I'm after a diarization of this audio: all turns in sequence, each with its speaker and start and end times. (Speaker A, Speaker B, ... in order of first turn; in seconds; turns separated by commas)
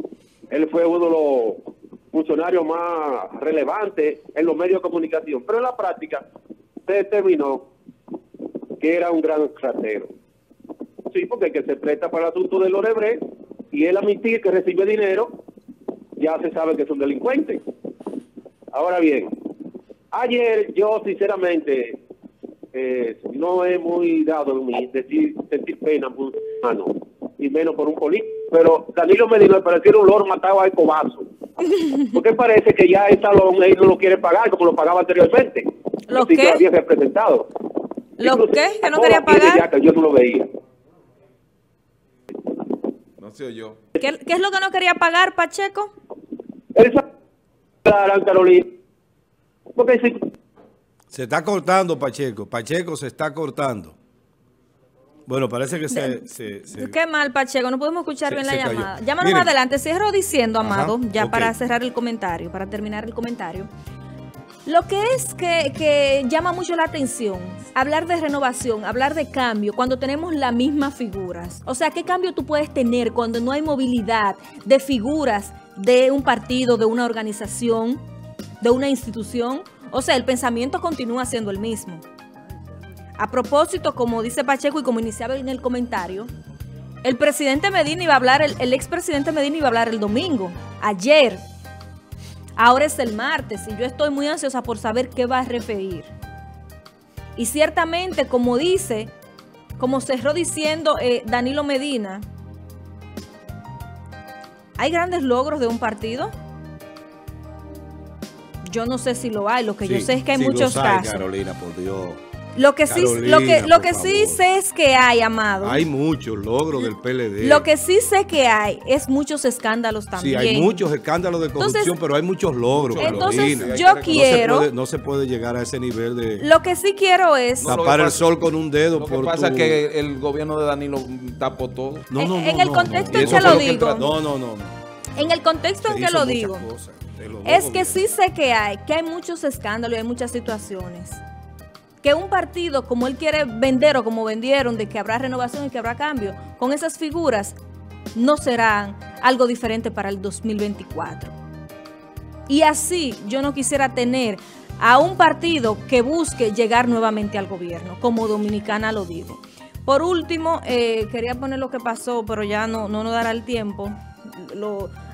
Speaker A: 0.5-6.2, Speaker A: 6.9-7.7, Speaker A: 8.8-10.1, Speaker A: 11.1-15.3, Speaker A: 16.2-17.6, Speaker A: 18.7-19.3, Speaker A: 20.1-22.0, Speaker A: 22.8-31.2, Speaker A: 32.1-37.5, Speaker B: 36.1-36.6, Speaker B: 38.2-39.7, Speaker A: 38.2-40.5, Speaker C: 43.2-43.8, Speaker B: 44.0-45.9, Speaker A: 46.8-47.0, Speaker A: 47.9-48.7, Speaker A: 49.8-50.1, Speaker D: 51.1-54.0, Speaker D: 55.3-57.0, Speaker B: 55.9-56.2, Speaker B: 56.7-63.7, Speaker D: 58.3-59.5, Speaker D: 60.6-61.5, Speaker B: 64.7-78.0, Speaker B: 78.6-82.0, Speaker B: 83.2-86.3, Speaker B: 87.0-91.4, Speaker B: 92.6-96.1, Speaker B: 97.4-99.1, Speaker B: 99.8-102.2, Speaker B: 104.8-106.3, Speaker B: 108.6-111.2, Speaker D: 109.8-112.2, Speaker B: 112.5-115.8, Speaker D: 112.9-114.4, Speaker D: 115.6-117.7, Speaker B: 117.4-120.8, Speaker D: 120.2-126.5, Speaker B: 121.6-122.0, Speaker C: 122.7-124.5, Speaker B: 123.0-124.7, Speaker B: 126.4-127.7, Speaker D: 127.6-129.8, Speaker C: 127.6-132.1, Speaker D: 132.1-134.7, Speaker B: 132.2-134.1, Speaker C: 133.1-134.1, Speaker B: 135.2-136.7, Speaker D: 135.8-138.0, Speaker B: 137.4-141.2, Speaker B: 142.0-147.6, Speaker B: 148.2-151.3, Speaker B: 152.5-164.9